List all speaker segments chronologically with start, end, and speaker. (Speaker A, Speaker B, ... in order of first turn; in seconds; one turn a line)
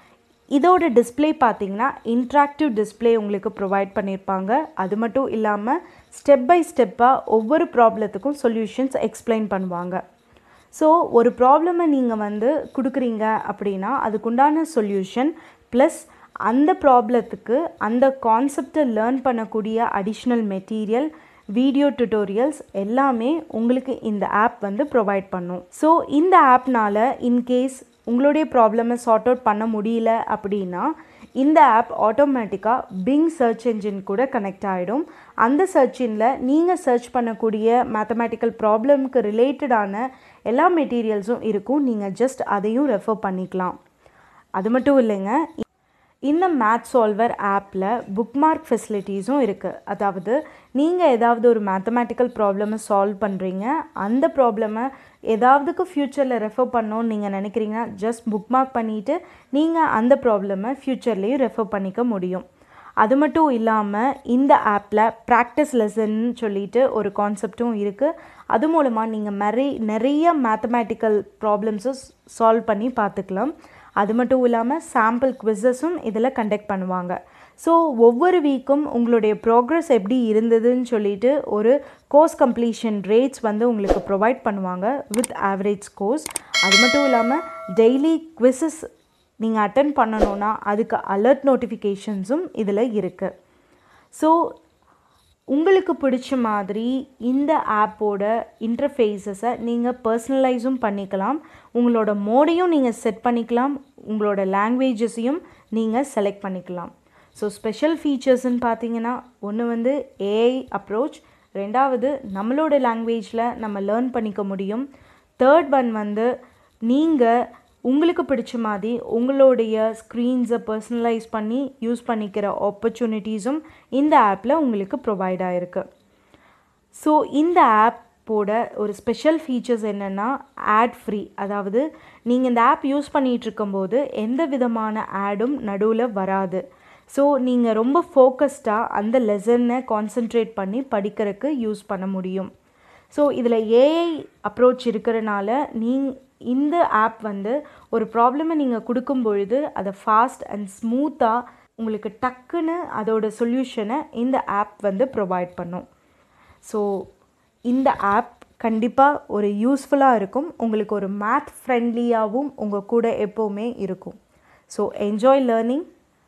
Speaker A: 0.5-10.0
Speaker A: 10.7-43.8
Speaker A: 44.6-45.5
Speaker A: 46.3-62.4
Speaker A: 63.0-88.8
Speaker A: 89.4-93.3
Speaker A: 94.1-94.5
Speaker A: 95.5-114.9
Speaker A: 115.4-116.3
Speaker A: 116.9-117.3
Speaker A: 117.9-125.8
Speaker A: 127.0-142.5
Speaker A: 143.1-155.8
Speaker A: 156.6-157.0
Speaker A: 157.7-164.2
Speaker A: 164.7-165.8